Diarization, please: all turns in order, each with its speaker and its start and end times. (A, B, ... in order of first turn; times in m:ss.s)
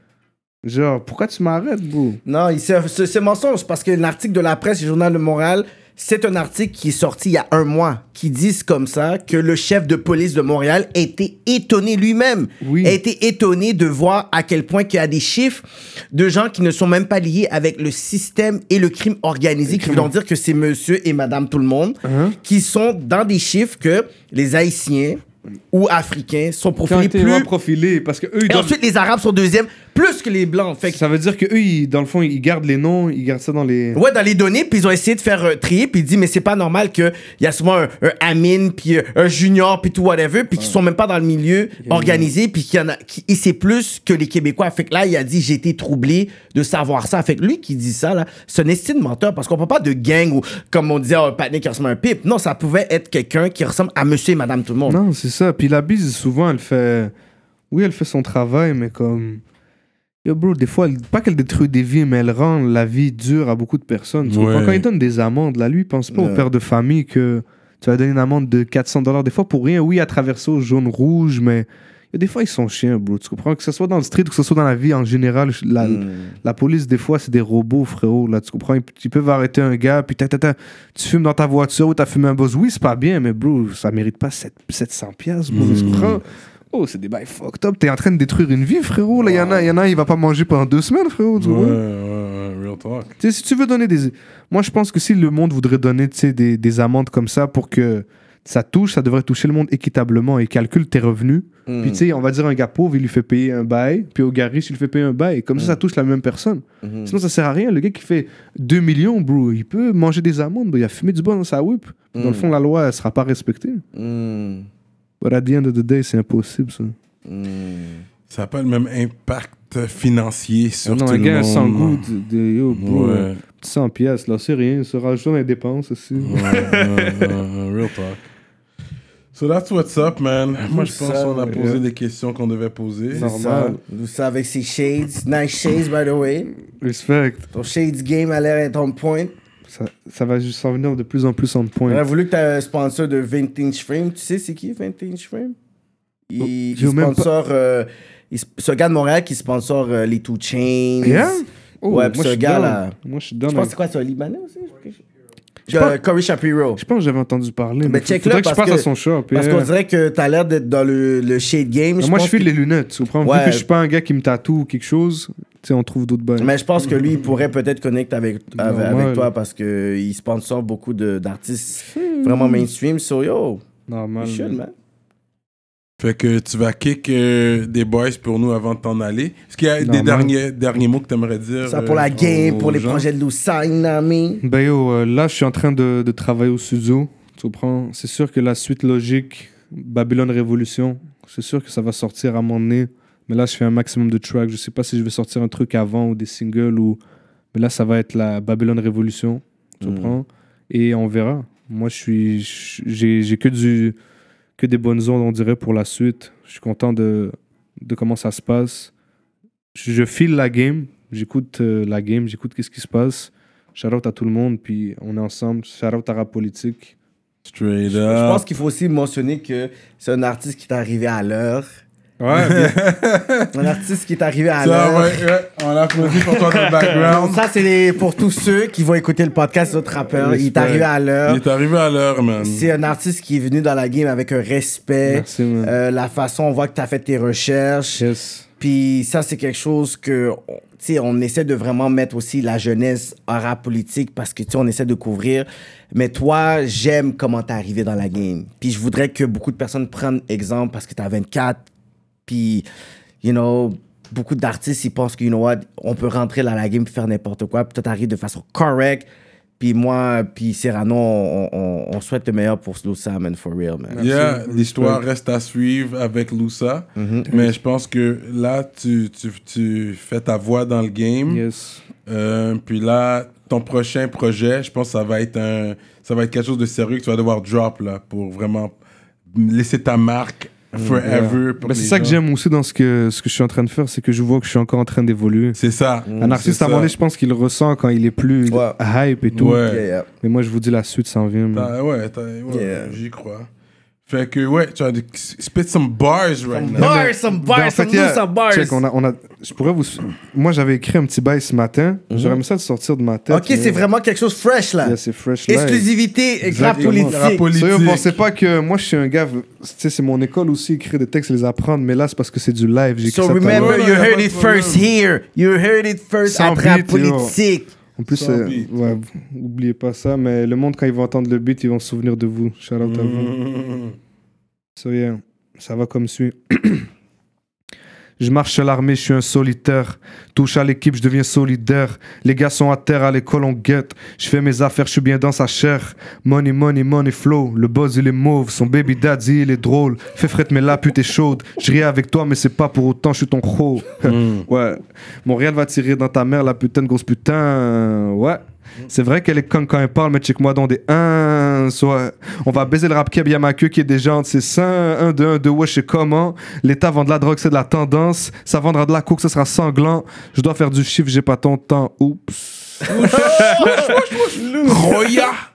0:00.6-0:02.2 A
0:02.2-0:27.5 B
0:12.6-0:13.0 A
0:19.7-0:20.1 A
0:22.0-0:22.4 A
0:26.8-0:28.8 A
0:28.4-0:31.0 B
0:30.9-0:34.0 A
0:33.9-0:55.0 B
0:41.8-0:42.3 A
0:54.9-0:57.1 A
0:57.7-0:59.4 A
1:00.2-1:31.8 A
1:04.3-1:04.8 C
1:06.1-1:06.4 B
1:15.8-1:16.4 B
1:25.5-1:26.2 C
1:29.2-1:29.6 B
1:31.4-1:33.1 C
1:33.2-1:53.8 A
1:41.7-1:42.0 B
1:46.8-1:47.1 B
1:52.1-1:52.5 B
1:53.9-1:54.7 B
1:55.2-1:56.9 A
1:57.2-1:58.0 B
1:58.3-2:02.0 C
2:00.8-2:07.3 A
2:02.7-2:03.4 C
2:06.2-2:08.2 C
2:09.3-2:13.2 C
2:10.8-2:11.8 A
2:11.0-2:11.5 B
2:13.1-2:16.5 B
2:13.1-2:13.8 A
2:16.8-2:17.5 A
2:17.5-2:19.3 B
2:19.7-2:22.1 A
2:21.9-2:25.5 B
2:26.3-2:32.9 B
2:26.4-2:27.3 A
2:31.0-2:33.7 A
2:33.5-2:35.0 B
2:35.7-2:36.8 B
2:35.7-2:36.0 A
2:36.8-2:39.7 A
2:37.8-2:42.5 B
2:42.0-2:46.5 A
2:43.2-2:43.6 B
2:46.4-2:53.6 B
2:48.5-2:49.3 A
2:51.9-2:52.7 A
2:53.9-2:54.6 A
2:54.2-2:54.7 B
2:56.0-3:02.7 C
2:59.8-3:00.3 A
3:01.6-3:04.4 B
3:02.2-3:03.0 A
3:04.4-3:17.0 A
3:17.5-3:24.0 A
3:19.8-3:20.2 B
3:24.6-3:28.9 A
3:29.7-3:36.9 A
3:37.4-3:38.4 C
3:37.9-3:41.7 B
3:42.2-3:42.7 A
3:42.3-3:43.7 C
3:43.5-3:45.2 B
3:44.6-3:47.5 C
3:46.1-3:47.1 A
3:46.8-3:51.4 B
3:50.1-3:50.9 A
3:51.2-3:52.7 C
3:52.4-3:58.0 B
3:55.0-3:55.7 A
3:58.0-3:58.4 A
3:58.6-4:11.6 B
4:12.3-4:12.6 B
4:13.2-4:19.1 B
4:19.6-4:24.0 B
4:23.9-4:25.0 A
4:24.0-4:31.4 C
4:27.0-4:27.3 B
4:27.3-4:27.6 A
4:31.3-4:31.8 A
4:32.1-4:38.7 C
4:39.3-4:42.2 C
4:40.9-4:45.6 A
4:45.6-4:46.9 C
4:46.1-4:46.4 B
4:46.2-4:49.7 A
4:48.5-4:48.8 B
4:49.3-4:49.8 C
4:49.6-4:50.1 B
4:50.2-4:51.7 A
4:51.5-4:53.5 C
4:52.5-4:53.0 B
4:54.1-4:57.0 C
4:56.5-4:58.8 B
4:56.8-5:03.8 A
5:02.1-5:02.4 B
5:03.3-5:07.4 B
5:04.8-5:05.9 A
5:06.4-5:13.8 A
5:06.6-5:08.1 C
5:13.0-5:17.7 B
5:13.4-5:14.9 C
5:16.3-5:17.4 A
5:18.0-5:23.3 A
5:18.1-5:18.9 C
5:22.8-5:24.0 C
5:24.8-5:26.9 A
5:28.2-6:03.9 A
5:44.0-5:44.4 C
6:02.9-6:05.4 C
6:03.1-6:05.0 B
6:04.5-6:05.2 A